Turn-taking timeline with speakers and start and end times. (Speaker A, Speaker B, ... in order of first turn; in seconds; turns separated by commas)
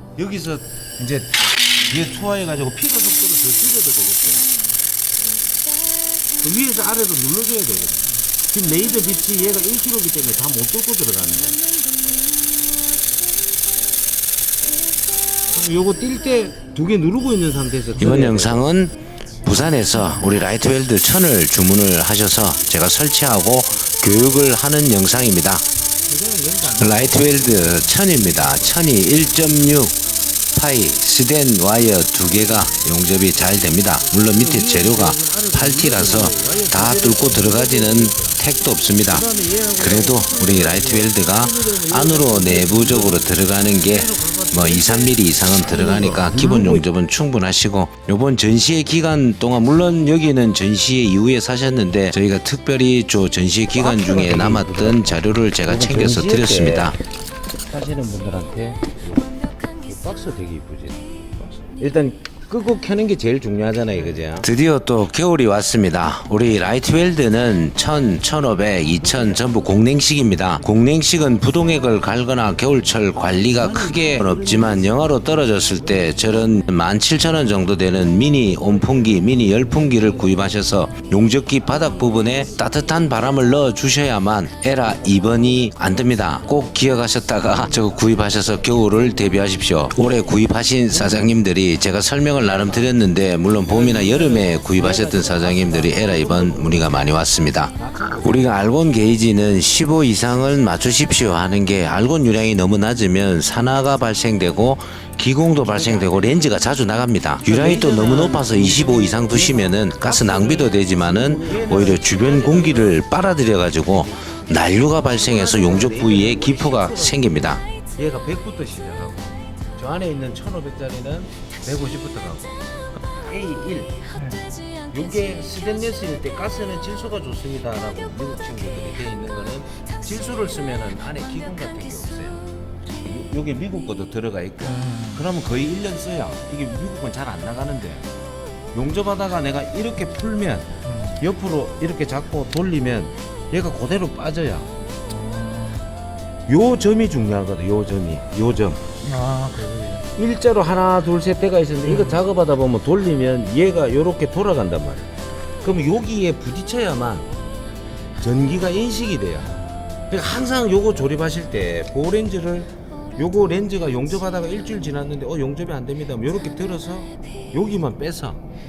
Speaker A: 0.2-4.5, Speaker A: 6.4-11.6, Speaker A: 15.5-18.6, Speaker B: 18.0-25.6, Speaker A: 26.1-29.7, Speaker B: 26.8-29.9, Speaker B: 30.5-39.2, Speaker A: 34.0-38.4, Speaker A: 39.1-46.8, Speaker B: 39.8-57.0, Speaker C: 46.3-46.6, Speaker A: 53.7-57.0, Speaker A: 57.7-59.3, Speaker A: 59.8-64.5, Speaker B: 64.4-117.6, Speaker A: 68.8-71.0, Speaker A: 73.4-76.6, Speaker A: 78.5-83.3, Speaker A: 85.0-85.7, Speaker A: 90.9-91.3, Speaker A: 92.4-92.9, Speaker A: 93.6-97.1, Speaker A: 97.8-98.6, Speaker A: 105.6-106.4, Speaker A: 107.4-113.1, Speaker A: 114.3-122.6, Speaker A: 123.2-124.0, Speaker C: 124.1-124.4, Speaker A: 124.9-132.4, Speaker A: 133.0-138.1, Speaker C: 134.6-135.2, Speaker A: 138.7-144.7, Speaker C: 140.8-141.2, Speaker C: 145.1-145.8, Speaker A: 146.5-148.8, Speaker C: 149.0-150.1, Speaker A: 150.1-155.1, Speaker C: 151.8-152.2, Speaker A: 155.6-157.3, Speaker A: 158.2-159.6, Speaker A: 160.1-168.4